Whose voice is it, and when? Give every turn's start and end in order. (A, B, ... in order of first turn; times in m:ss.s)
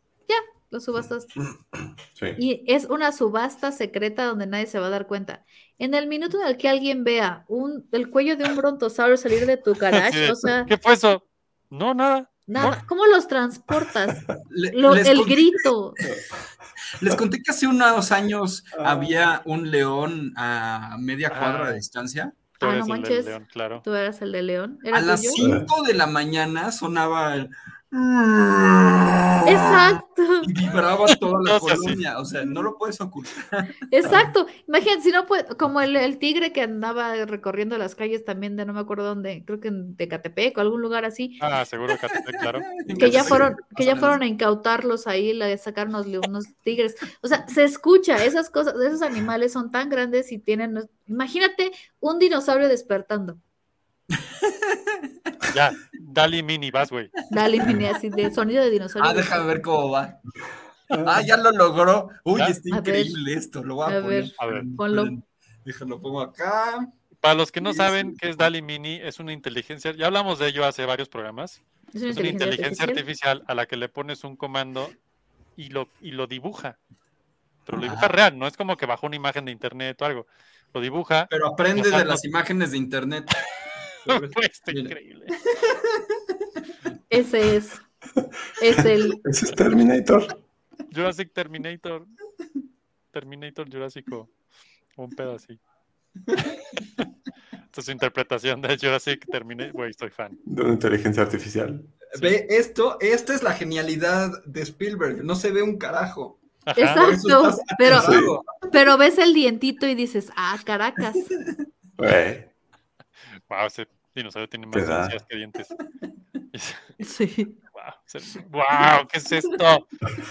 0:00.3-0:01.3 A
0:01.4-0:02.4 B
0:02.4-0:10.7 A
0:09.9-0:12.8 C
0:12.5-0:16.1 A
0:14.5-0:15.7 D
0:16.9-0:22.3 D
0:18.8-0:19.1 B
0:21.3-0:21.8 C
0:22.6-0:23.8 C
0:22.6-0:25.5 A
0:24.9-0:33.8 D
0:25.4-0:25.7 B
0:29.4-0:30.5 A
0:31.1-0:32.0 C
0:33.9-0:41.4 A
0:41.4-0:42.7 C
0:42.8-0:44.2 D
0:43.0-0:43.5 B
0:43.0-0:53.4 A
0:54.2-0:55.0 D
0:55.5-0:57.1 C
0:57.3-0:59.4 A
0:59.0-1:00.2 D
1:00.9-1:01.2 B
1:01.0-1:06.9 D
1:02.7-1:03.2 A
1:03.8-1:05.1 A
1:04.4-1:04.7 C
1:07.2-1:14.9 C
1:07.8-1:08.2 D
1:11.9-1:13.0 A
1:15.6-1:16.8 C
1:17.6-1:22.2 C
1:17.8-1:18.1 D
1:21.3-1:23.4 D
1:24.0-1:26.2 D
1:24.1-1:25.3 C
1:27.1-1:27.8 A
1:28.6-1:29.2 A
1:28.7-1:30.3 B
1:30.9-1:32.1 C
1:33.1-1:34.3 C
1:35.0-1:35.6 C
1:37.7-1:40.4 C
1:40.4-1:41.9 B
1:42.1-1:48.6 D
1:46.6-1:47.1 C
1:46.8-1:51.3 A
1:47.9-1:48.3 B
1:52.0-1:52.5 B
1:53.5-1:55.7 C
1:54.7-1:55.2 B
1:56.5-1:56.8 C
1:57.0-1:57.6 A
1:57.7-1:59.8 C